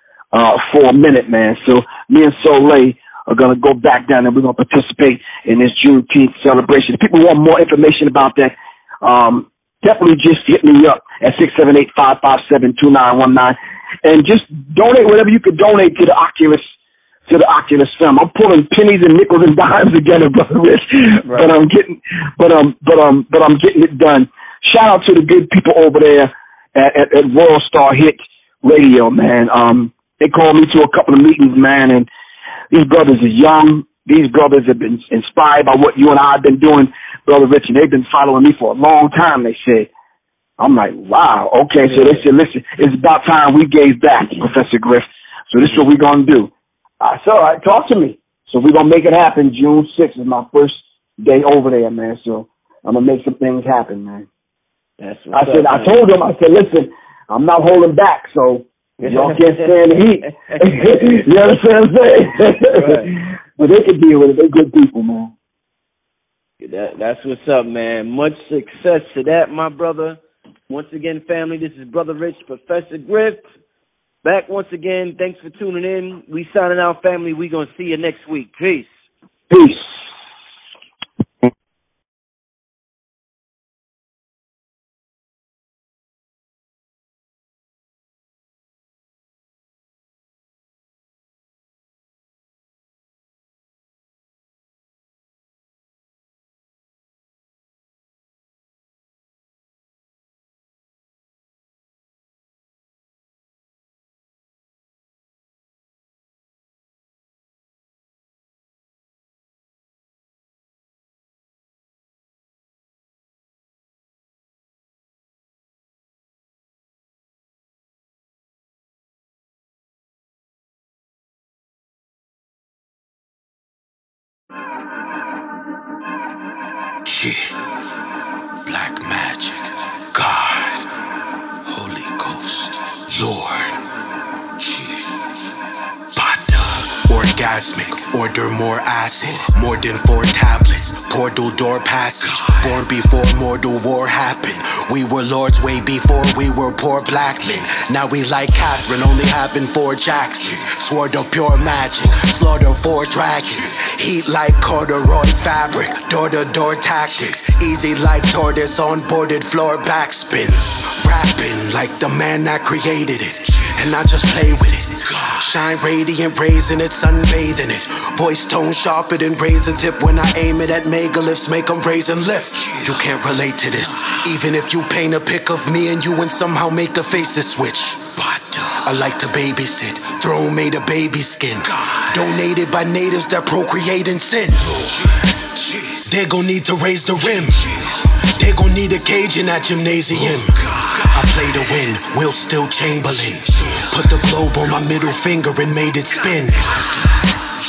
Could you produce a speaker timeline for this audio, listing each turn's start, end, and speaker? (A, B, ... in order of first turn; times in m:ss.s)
0:00.3-0:16.6 A
0:17.3-0:32.1 A
0:21.3-0:21.5 B
0:32.7-0:39.9 A
0:40.6-0:54.3 A
0:55.0-0:56.0 B
0:55.3-1:05.3 A
0:59.0-1:00.8 B
1:02.7-1:03.1 B
1:06.6-1:13.4 B
1:14.2-1:18.9 B
1:19.5-1:20.0 A
2:07.0-2:07.6 C
2:08.6-2:10.9 C
2:11.7-2:13.8 C
2:14.6-2:15.1 C
2:16.1-3:17.2 C